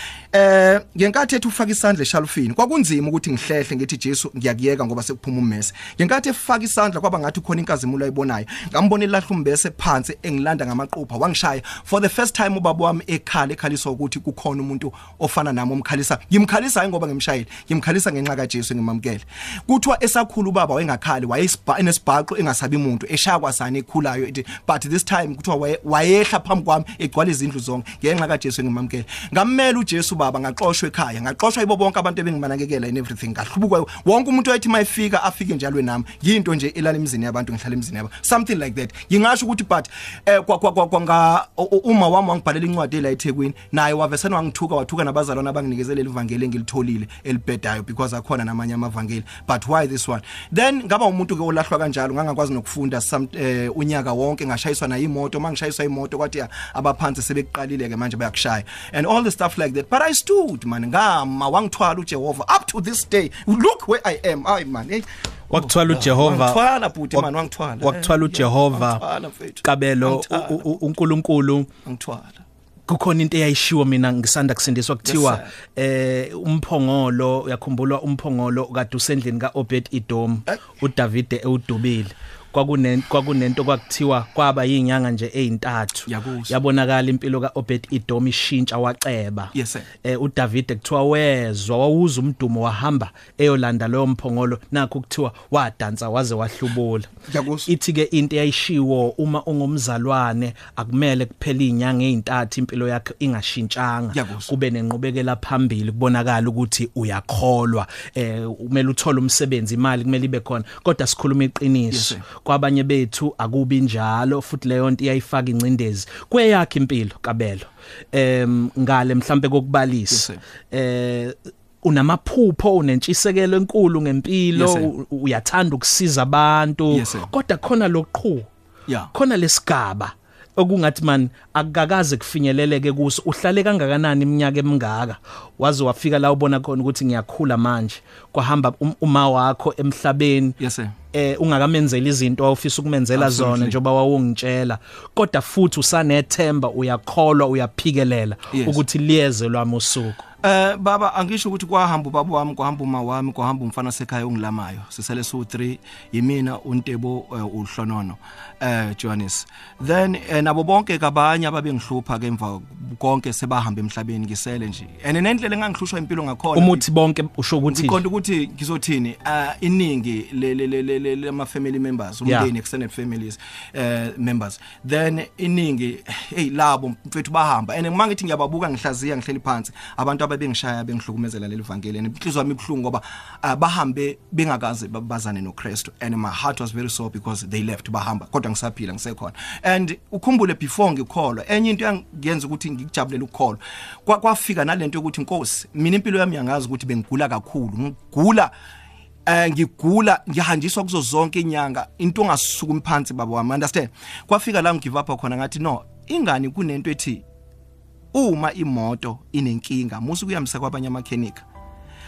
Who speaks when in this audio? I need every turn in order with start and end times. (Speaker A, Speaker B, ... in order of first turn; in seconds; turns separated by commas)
Speaker A: 0.3-70.7, Speaker B: 65.5-66.6, Speaker B: 67.8-69.0, Speaker B: 69.6-71.7, Speaker A: 71.8-72.4, Speaker B: 72.9-97.1, Speaker A: 75.0-75.5, Speaker A: 86.1-86.5, Speaker A: 89.5-89.9, Speaker A: 97.3-97.7, Speaker B: 97.7-128.5, Speaker A: 104.1-104.5, Speaker A: 111.9-112.2, Speaker A: 120.1-120.4, Speaker A: 124.5-124.9, Speaker A: 126.9-127.3, Speaker A: 128.9-129.1, Speaker B: 129.1-140.6, Speaker A: 140.6-140.9, Speaker B: 141.1-150.2, Speaker A: 143.1-143.8, Speaker A: 148.5-148.8, Speaker A: 150.4-166.8, Speaker B: 166.5-168.0, Speaker A: 167.6-198.5, Speaker A: 199.2-207.2, Speaker A: 208.1-211.4